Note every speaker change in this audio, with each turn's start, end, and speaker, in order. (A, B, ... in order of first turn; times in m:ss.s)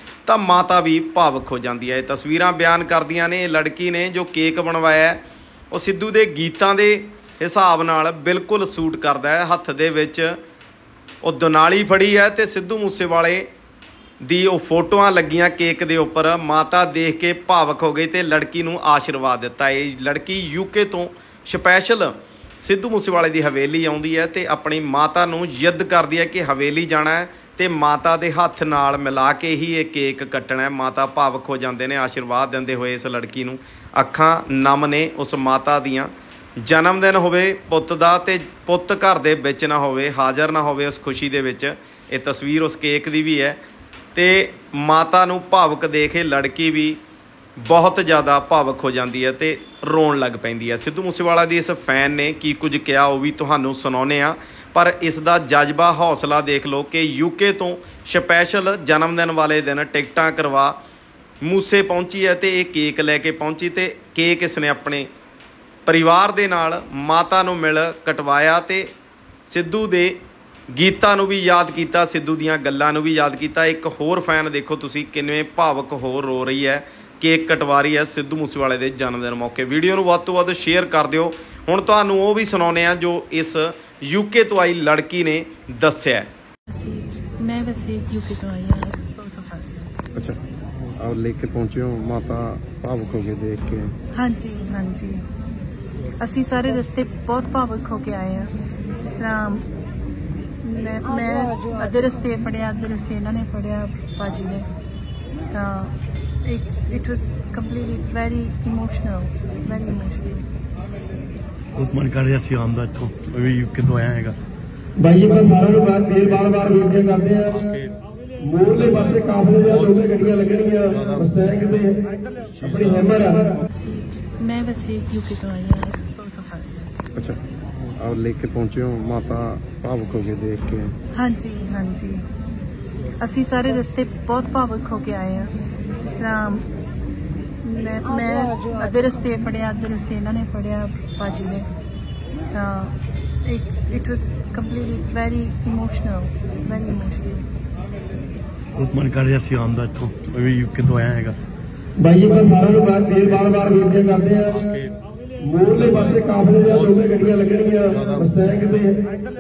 0:00.2-0:05.2 A
0:05.7-0:10.4 A
0:11.2-0:13.5 A
0:14.2-0:43.6 A
0:44.1-0:47.0 A
0:47.6-1:00.8 A
1:01.4-1:05.1 A
1:05.8-1:08.9 A
1:09.5-1:10.2 A
1:10.7-1:26.3 A
1:26.7-1:29.8 B
1:31.0-1:33.9 C
1:34.2-1:35.2 B
1:36.2-1:39.7 B
1:40.6-1:44.7 B
1:45.5-1:50.5 B
1:51.7-1:54.4 D
1:55.0-1:57.7 E
1:58.4-2:02.0 E
2:02.6-2:03.5 E
2:03.7-2:06.8 B
2:07.2-2:10.9 C
2:11.1-2:12.2 B
2:13.2-2:16.7 B
2:17.6-2:21.7 B
2:22.5-2:27.5 B
2:28.8-2:31.4 D
2:32.0-2:34.7 E
2:35.4-2:39.0 E